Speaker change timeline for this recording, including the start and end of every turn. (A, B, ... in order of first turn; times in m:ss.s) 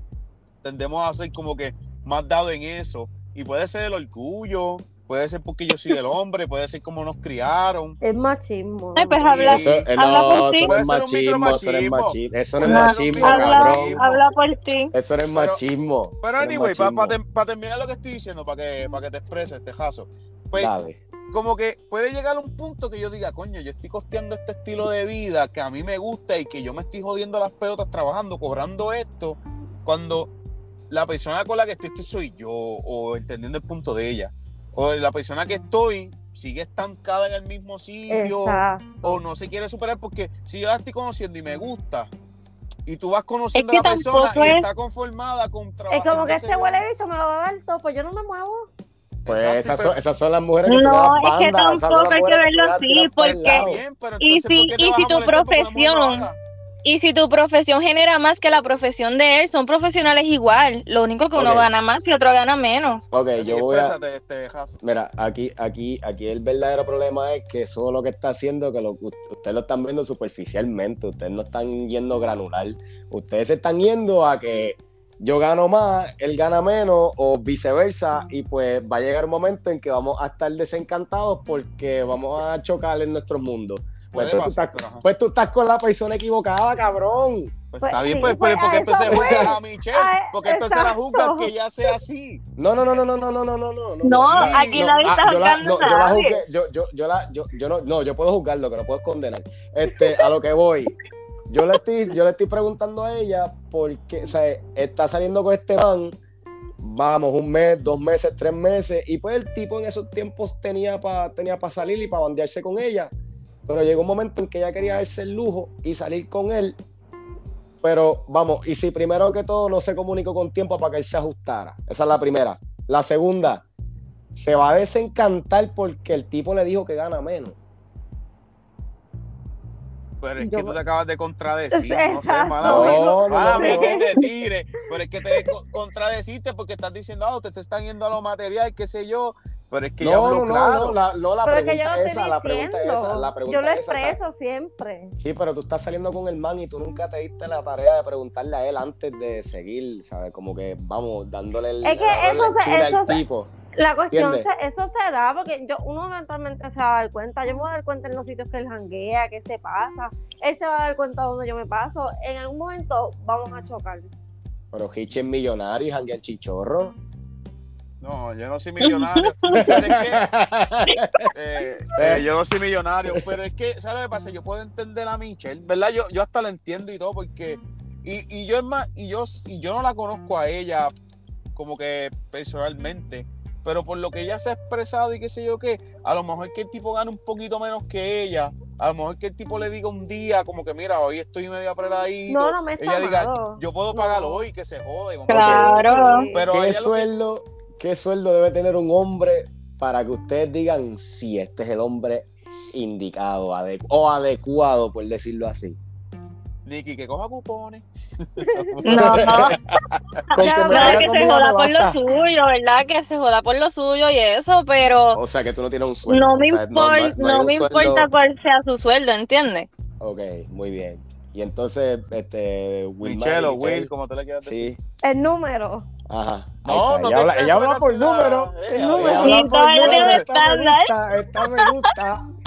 0:00.6-0:08.0 A
0:08.0-0:09.4 B
0:09.0-0:10.7 C
0:09.3-0:09.9 A
0:09.5-0:14.1 D
0:10.6-0:14.1 A
0:12.6-0:14.9 C
0:14.9-0:17.2 D
0:15.3-0:15.6 A
0:16.2-0:20.7 A
0:20.6-0:21.0 D
0:21.3-0:30.3 A
0:30.9-0:42.1 A
0:38.1-0:39.2 B
0:42.9-0:46.8 A
0:43.5-0:44.7 C
0:45.9-0:48.7 B
0:49.2-0:50.0 A
0:49.3-0:53.8 D
0:50.7-0:53.7 C
0:53.2-0:56.4 A
0:54.2-0:56.3 C
0:56.8-1:03.0 C
1:01.3-1:01.7 D
1:03.1-1:04.0 D
1:03.4-1:04.8 A
1:04.8-1:27.5 D
1:24.1-1:25.0 A
1:27.7-1:32.4 A
1:27.8-1:31.5 B
1:29.0-1:29.5 D
1:32.6-1:40.9 D
1:34.0-1:36.4 C
1:34.3-1:34.9 A
1:41.5-1:46.1 D
1:46.8-1:53.1 D
1:53.7-1:56.8 D
1:57.8-2:03.6 D
2:04.3-2:07.6 D
2:10.2-2:21.0 A
2:10.4-2:10.8 B
2:11.7-2:14.1 B
2:12.6-2:14.0 D
2:20.0-2:24.2 D
2:21.4-2:25.1 B
2:25.2-2:33.5 D
2:31.8-2:33.2 B
2:33.8-2:44.1 B
2:34.1-2:34.4 D
2:44.7-2:46.9 D
2:48.0-2:50.2 A
2:48.8-2:49.8 C
2:49.5-2:51.3 D
2:51.3-3:00.9 A
2:52.0-2:52.2 D
3:01.6-3:17.1 A
3:12.3-3:14.5 B
3:15.3-3:16.2 C
3:15.4-3:15.7 D
3:15.4-3:16.5 B
3:16.5-3:25.8 D
3:26.6-3:30.2 A
3:28.8-3:29.6 C
3:28.9-3:29.6 D
3:30.3-3:35.2 C
3:30.3-3:32.0 D
3:30.4-3:31.3 B
3:35.1-3:38.1 D
3:36.1-3:39.7 C
3:40.0-3:43.9 D
3:43.0-3:44.7 A
3:44.4-3:44.8 D
3:45.0-3:45.9 B
3:46.1-3:52.2 D
3:46.6-3:50.2 A
3:48.7-3:49.4 B
3:49.2-3:51.9 C